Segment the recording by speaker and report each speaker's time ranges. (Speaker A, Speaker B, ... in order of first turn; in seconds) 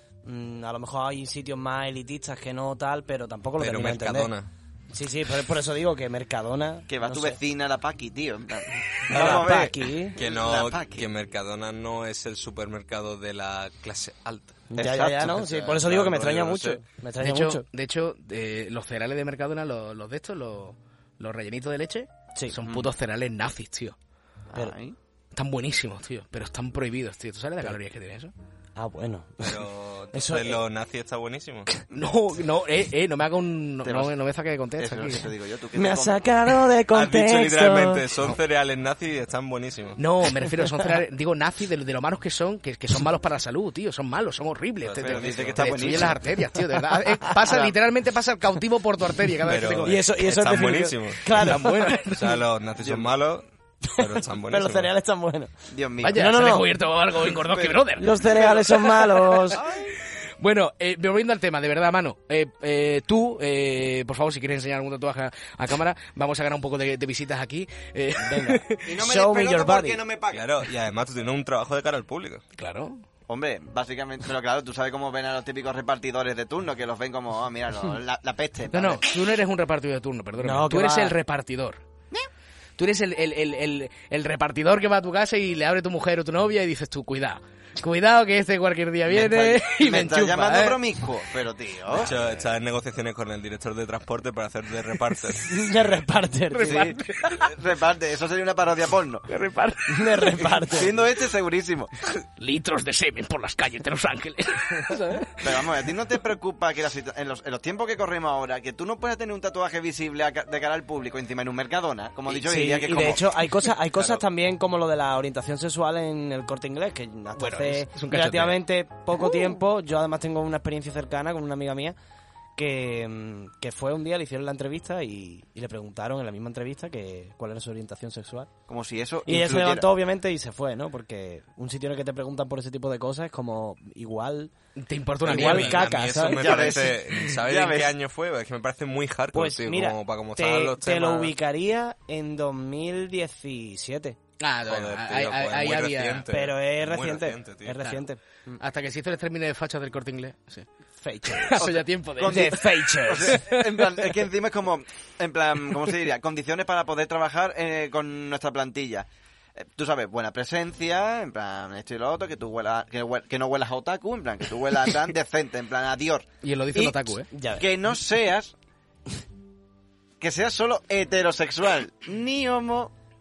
Speaker A: 0.2-4.3, 4.9-7.4, 9.0-10.2, 14.7-17.6, 28.8-30.6, 35.8-38.1, 49.9-52.1, 53.9-55.5, 56.1-56.7, 58.0-59.6, 68.2-70.0, 80.4-81.2, 95.5-96.9, 99.9-101.0, 112.3-122.0, 122.5-128.5, 129.3-134.5, 135.2-136.9, 139.3-144.2, 146.3-148.6, 151.0-151.7, 152.2-153.4, 167.3-167.7
Speaker B: 3.6-4.5, 9.1-9.5, 10.2-14.6, 15.3-16.8, 29.4-31.7, 36.9-40.0, 44.8-46.1, 49.5-51.2, 52.1-54.9, 70.3-72.4, 91.9-95.5, 114.0-114.2, 135.2-141.3, 144.7-148.0
Speaker C: 6.9-11.1, 14.8-15.8, 22.6-22.9, 24.5-24.9, 33.8-34.1, 34.8-36.2, 45.0-46.2, 47.4-47.8, 52.8-53.1, 55.7-56.3, 57.4-60.0, 68.8-70.6, 73.3-79.0, 89.1-92.4, 96.6-99.3, 100.7-101.9, 105.4-113.3, 128.7-129.9, 136.2-137.9, 151.6-168.5, 170.2-172.9
Speaker D: 17.2-23.9, 25.3-28.3, 31.9-35.3, 40.0-50.0, 51.4-52.4, 56.0-58.2, 60.4-69.0, 72.6-73.0, 78.7-81.8, 82.8-90.8, 96.5-97.4, 99.3-100.3, 102.4-105.4, 117.3-118.5, 134.8-135.8, 144.4-146.3, 148.6-150.7, 151.2-153.9, 166.4-167.3